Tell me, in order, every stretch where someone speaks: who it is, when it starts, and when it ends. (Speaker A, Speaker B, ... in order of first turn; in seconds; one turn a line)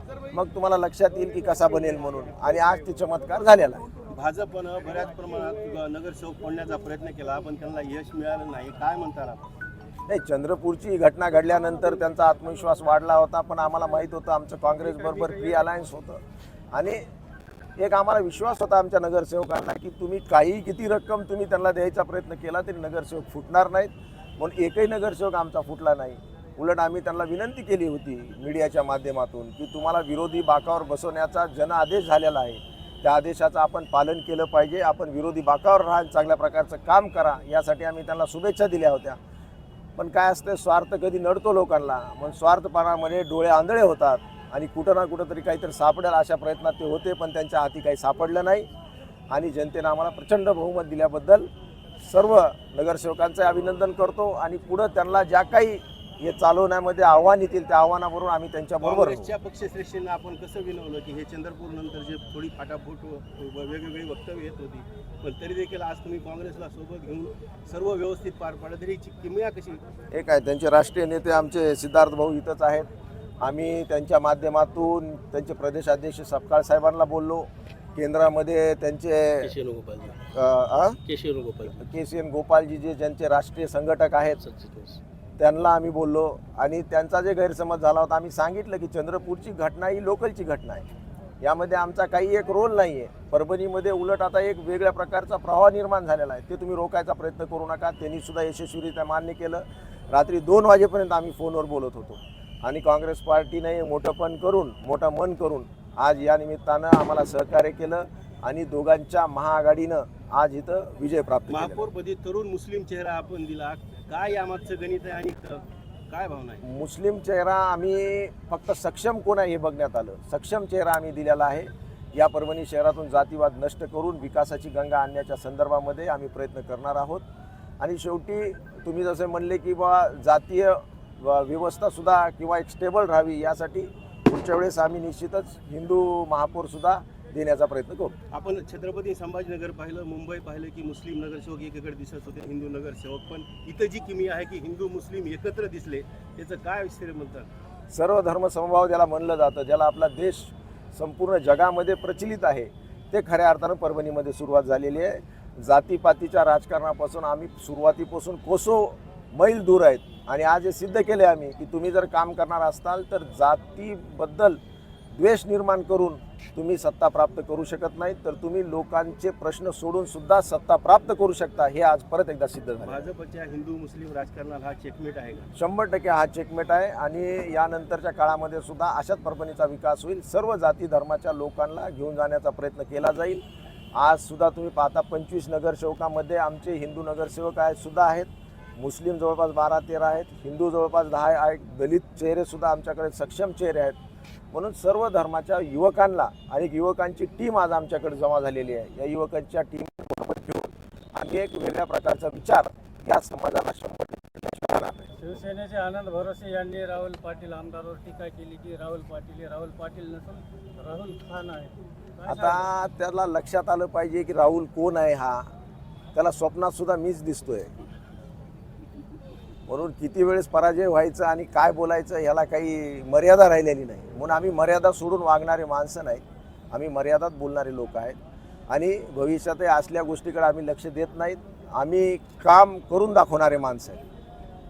Speaker A: 0.3-3.9
Speaker B: 4.1-9.5
Speaker A: 10.1-17.1
Speaker B: 14.8-15.7
Speaker A: 17.8-39.2
Speaker A: 40.0-48.7
Speaker A: 49.3-51.5
Speaker A: 52.0-59.3
Speaker B: 58.8-69.8
Speaker A: 70.1-72.9
Speaker A: 73.4-79.5
Speaker B: 79.4-80.2
Speaker A: 80.3-81.0
Speaker B: 81.0-81.8
Speaker A: 81.8-84.4
Speaker B: 84.4-85.0
Speaker A: 85.4-90.9
Speaker A: 91.4-111.9
Speaker B: 111.5-116.6
Speaker A: 116.6-127.2
Speaker A: 127.8-138.2
Speaker B: 138.3-147.5
Speaker A: 147.9-164.6
Speaker A: 165.1-173.1
Speaker B: 172.8-175.5
Speaker A: 175.6-194.0
Speaker A: 194.5-205.4
Speaker C: 205.2-212.7
Speaker A: 212.3-215.5
Speaker A: 216.2-217.8
Speaker A: 219.7-228.2
Speaker A: 228.7-234.0